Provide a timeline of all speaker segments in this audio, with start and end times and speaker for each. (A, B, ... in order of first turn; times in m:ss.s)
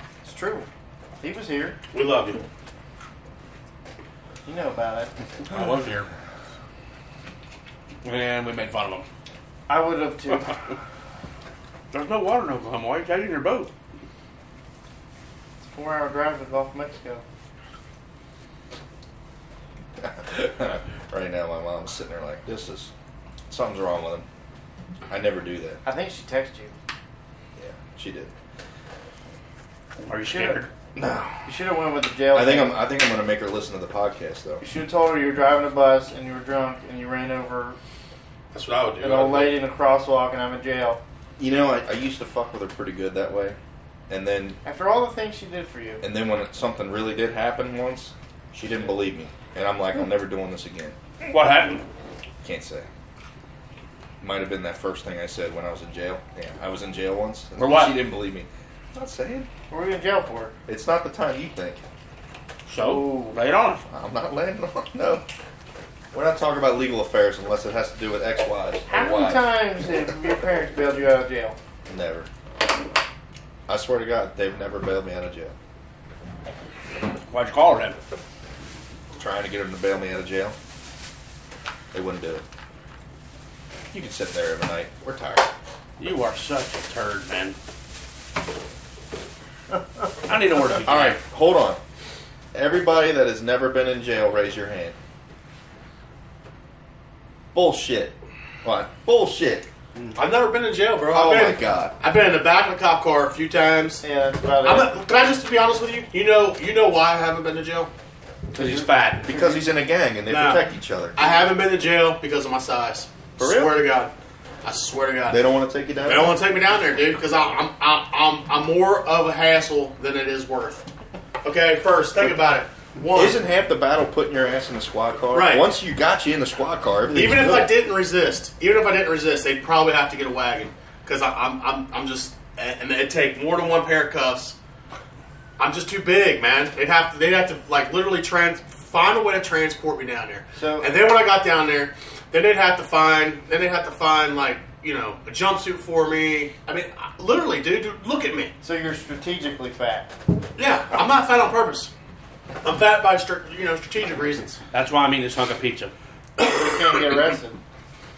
0:00.2-0:00.7 A
0:01.2-0:01.8 A
0:01.9-0:02.4 B
0:04.4-0:05.1 A
0:05.5-0:06.1 C
0:08.0-0:09.0 C
0:09.7-0:10.6 A
0:11.9-0:13.7 C
0:15.6-0:17.2 A
0:20.0-0:22.9 D
0:23.5-0:24.3 D
0:25.1-0:25.8 D
0:25.8-0:26.7 A
0:27.6-0:28.3 D
0:30.1-0:30.7 C
0:30.3-0:30.6 A
0:31.0-0:31.4 D
0:31.4-0:32.8 A
0:32.3-0:34.6 D
0:34.6-0:37.8 A
0:38.5-0:39.6 B
0:39.0-0:41.0 A
0:41.4-0:43.6 D
0:44.1-0:44.6 D
0:44.6-0:46.0 A
0:46.0-0:51.0 D
0:51.3-0:51.8 C
0:52.4-0:52.9 D
0:54.2-0:59.5 D
0:57.6-0:58.0 C
0:59.7-1:00.5 A
1:00.7-1:01.8 D
1:02.7-1:03.8 C
1:02.8-1:03.4 A
1:03.9-1:05.2 D
1:06.1-1:09.5 D
1:08.9-1:11.6 A
1:11.9-1:12.3 D
1:13.7-1:15.6 D
1:17.3-1:18.0 C
1:19.2-1:20.6 D
1:21.9-1:22.4 D
1:23.9-1:25.5 D
1:26.0-1:27.6 C
1:30.3-1:31.2 C
1:30.8-1:31.8 D
1:32.5-1:35.0 D
1:37.5-1:39.7 D
1:40.2-1:44.0 B
1:41.1-1:41.9 D
1:44.0-1:44.9 A
1:44.6-1:47.9 B
1:48.5-1:49.3 C
1:49.2-1:51.2 D
1:49.3-1:49.6 A
1:50.3-1:50.6 B
1:51.2-1:55.4 B
1:53.4-1:53.8 D
1:55.3-1:56.4 D
1:56.0-2:00.9 B
2:01.4-2:03.4 B
2:03.1-2:07.7 D
2:05.3-2:05.7 B
2:07.1-2:14.6 B
2:15.6-2:28.5 B
2:20.6-2:20.9 A
2:28.6-2:30.1 A
2:30.6-2:31.9 B
2:32.6-2:34.6 B
2:34.7-2:35.9 C
2:36.4-2:37.6 A